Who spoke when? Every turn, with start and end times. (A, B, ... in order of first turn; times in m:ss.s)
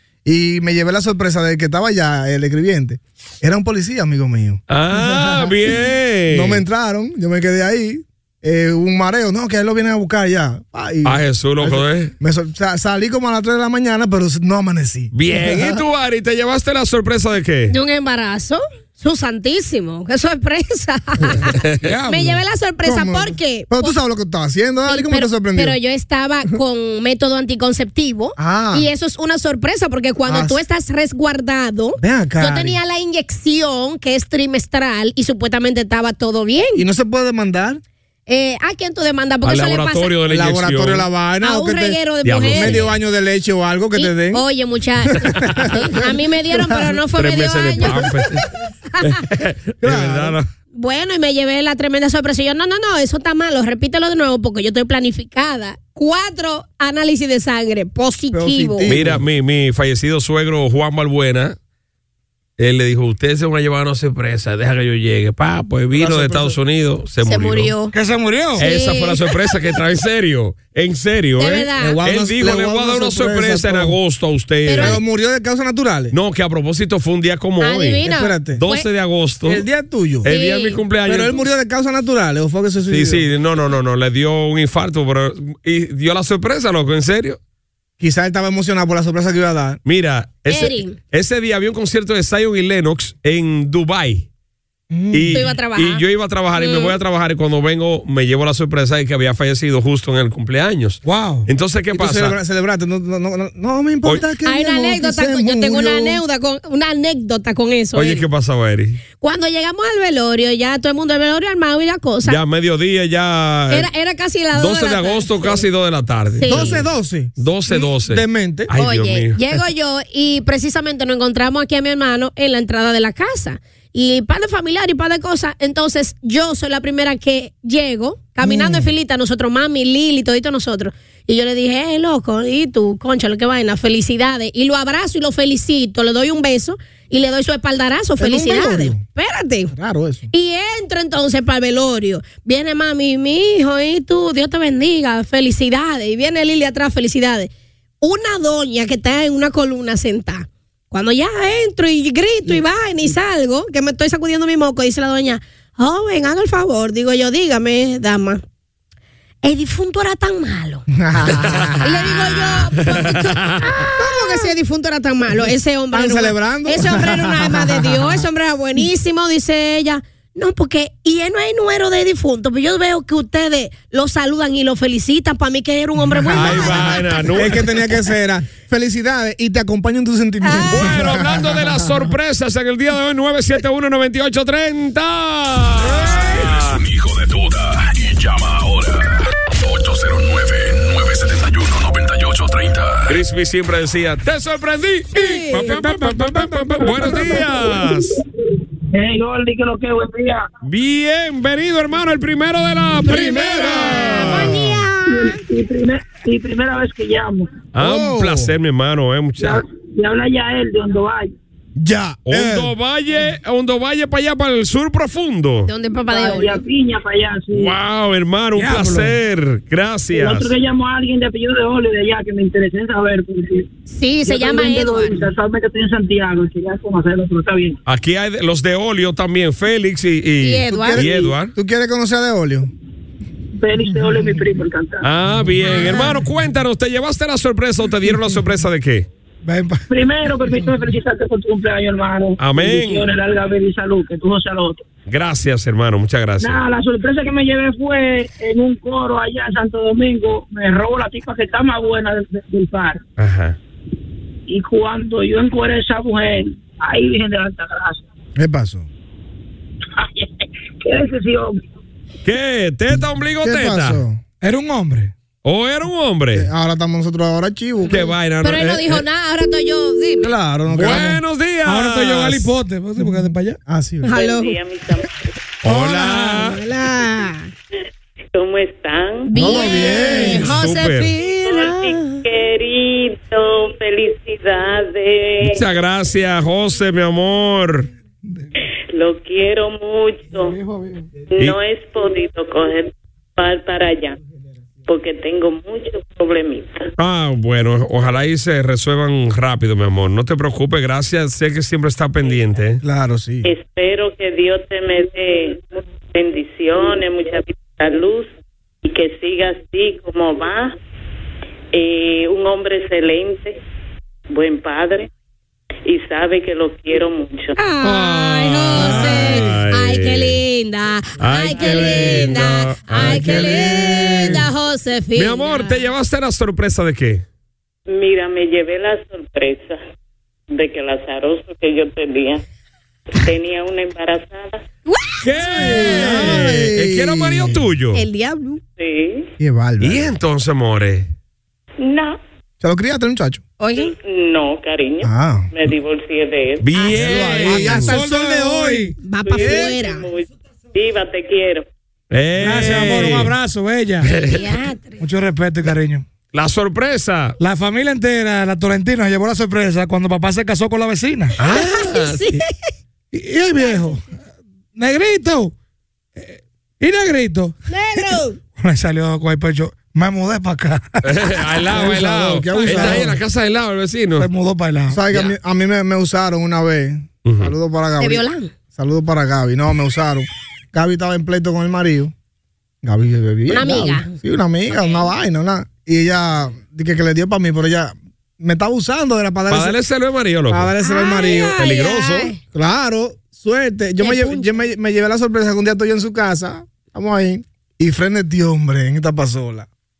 0:00.2-0:15.8 A
0:04.7-0:06.6 B
0:11.0-0:12.1 B
0:15.1-0:17.7 B
0:17.7-0:21.5 C
0:21.8-0:22.4 D
0:22.0-0:23.9 C
0:22.8-0:25.8 A
0:24.9-0:36.8 C
0:28.4-0:28.9 A
0:30.3-0:30.6 A
0:32.0-0:32.8 A
0:36.7-0:37.8 A
0:38.3-0:40.1 C
0:39.4-0:41.0 B
0:40.2-0:44.4 A
0:41.4-0:42.9 C
0:42.2-0:42.9 B
0:43.9-0:48.1 C
0:45.1-0:45.9 A
0:46.5-0:47.0 A
0:47.2-0:48.5 B
0:49.0-0:50.5 B
0:49.8-0:50.4 A
0:50.7-0:58.9 C
0:58.3-0:59.2 A
0:58.9-1:01.6 B
1:02.6-1:07.7 B
1:05.9-1:06.6 A
1:07.2-1:07.9 C
1:07.9-1:08.6 D
1:08.5-1:09.6 C
1:08.6-1:15.0 B
1:11.4-1:12.0 C
1:11.8-1:14.0 A
1:14.6-1:15.0 C
1:14.7-1:16.1 A
1:16.1-1:18.0 B
1:17.6-1:18.9 C
1:18.0-1:18.6 A
1:18.5-1:19.6 B
1:19.4-1:20.3 A
1:20.2-1:21.4 B
1:20.2-1:20.8 C
1:21.0-1:23.2 A
1:22.9-1:27.4 B
1:28.0-1:29.8 A
1:29.8-1:34.3 B
1:30.5-1:30.9 C
1:34.9-1:35.6 A
1:35.1-1:42.4 B
1:35.3-1:36.0 C
1:36.6-1:37.0 C
1:41.0-1:41.5 D
1:41.9-1:46.2 A
1:44.4-1:48.2 C
1:47.9-1:49.0 B
1:49.2-1:52.4 C
1:52.2-1:53.9 B
1:53.7-1:55.6 C
1:54.5-1:56.8 B
1:56.4-1:56.8 C
1:56.4-1:58.7 A
1:57.4-1:59.4 B
1:58.7-2:19.7 C
2:08.4-2:08.9 A
2:18.2-2:19.0 A
2:19.7-2:20.3 A
2:20.3-2:38.4 C
2:39.4-2:40.8 C
2:40.9-2:41.9 A
2:41.4-2:41.8 B
2:41.8-2:57.3 C
2:43.2-2:43.7 B
2:44.0-2:44.5 A
2:45.9-2:48.2 A
2:56.0-3:01.8 A
2:56.3-2:57.6 B
3:00.4-3:00.8 C
3:00.7-3:06.8 B
3:06.6-3:13.2 E
3:13.1-3:18.2 B
3:15.1-3:15.8 C
3:15.5-3:17.4 D
3:18.9-3:20.5 F
3:20.6-3:24.6 B
3:23.1-3:25.4 C
3:24.3-3:24.8 A
3:25.0-3:27.7 F
3:27.7-3:29.6 B
3:27.8-3:28.5 A
3:29.4-3:31.3 F
3:31.8-3:32.7 A
3:32.3-3:35.7 B
3:35.7-3:36.6 C
3:36.1-3:37.8 F
3:37.5-3:40.5 B
3:38.5-3:39.1 D
3:40.1-3:43.7 F
3:43.8-3:45.2 C
3:44.2-3:47.8 F
3:47.8-3:51.5 B
3:50.4-3:51.2 C
3:50.7-3:52.7 A
3:53.6-3:55.1 F
3:55.0-3:59.1 B
3:55.6-3:56.2 C
3:59.4-3:59.8 D
3:59.9-4:04.8 F
4:02.4-4:03.1 B
4:05.1-4:06.6 B
4:06.4-4:13.0 F
4:13.2-4:13.6 B
4:14.5-4:18.0 F
4:18.4-4:18.9 A
4:20.0-4:21.6 F
4:22.2-4:24.0 B
4:22.9-4:24.2 A
4:24.4-4:25.1 D
4:25.4-4:26.5 B
4:26.3-4:28.0 A
4:27.9-4:29.0 B
4:28.4-4:30.3 C
4:30.2-4:31.2 A
4:30.7-4:32.5 B
4:30.8-4:33.6 D
4:33.7-4:34.1 A
4:34.0-4:34.5 C
4:34.1-4:35.1 G
4:35.6-4:36.6 B
4:35.6-4:36.5 D
4:36.3-4:37.5 C
4:38.3-4:40.2 G
4:39.3-4:42.2 C
4:39.3-4:40.5 A
4:40.1-4:41.1 B
4:41.2-4:45.6 G
4:45.4-4:47.9 B
4:48.9-4:50.6 G
4:50.4-4:51.1 D
4:51.3-4:54.2 G
4:54.8-4:56.9 G
4:57.0-5:02.8 B
5:02.8-5:03.5 A
5:03.4-5:08.3 G
5:08.8-5:10.7 G
5:11.7-5:13.6 G
5:14.3-5:15.1 G
5:15.8-5:17.6 G
5:17.6-5:25.8 C
5:17.8-5:20.4 B
5:18.7-5:19.5 D
5:21.2-5:24.3 B
5:23.0-5:24.3 A
5:23.4-5:24.2 D
5:25.1-5:27.2 B
5:27.9-5:29.8 G
5:30.5-5:32.4 G
5:33.1-5:34.6 G
5:34.9-5:36.3 C
5:35.2-5:38.0 B
5:35.6-5:37.6 A
5:37.9-5:38.6 C
5:38.8-5:39.3 G
5:39.4-5:40.1 A
5:39.8-5:41.1 B
5:41.8-5:42.2 G
5:42.6-5:43.4 A
5:43.6-5:43.9 C
5:43.7-5:46.6 G
5:45.0-5:45.5 A
5:46.6-5:47.9 B
5:46.8-5:50.0 C
5:47.0-5:48.9 A
5:47.5-5:49.0 D
5:49.2-5:51.6 G
5:49.4-5:49.7 A
5:52.1-5:53.3 B
5:52.4-5:54.1 D
5:54.0-5:54.4 B
5:54.2-5:55.0 C
5:55.0-5:56.0 D
5:56.3-5:57.4 B
5:57.4-6:01.3 D
6:01.4-6:02.4 B
6:01.5-6:02.5 C
6:03.1-6:04.0 D
6:04.7-6:05.5 D
6:06.2-6:11.0 D
6:07.7-6:08.4 C
6:11.0-6:14.3 B
6:11.7-6:13.1 A
6:14.2-6:15.0 D
6:14.9-6:22.1 A
6:17.2-6:17.5 B
6:18.0-6:18.5 C
6:22.8-6:29.8 A
6:23.5-6:24.1 C
6:24.7-6:25.0 C
6:29.5-6:30.7 B
6:30.5-6:31.6 A
6:30.8-6:32.4 C
6:31.4-6:32.3 B
6:32.5-6:39.7 A
6:34.0-6:34.6 C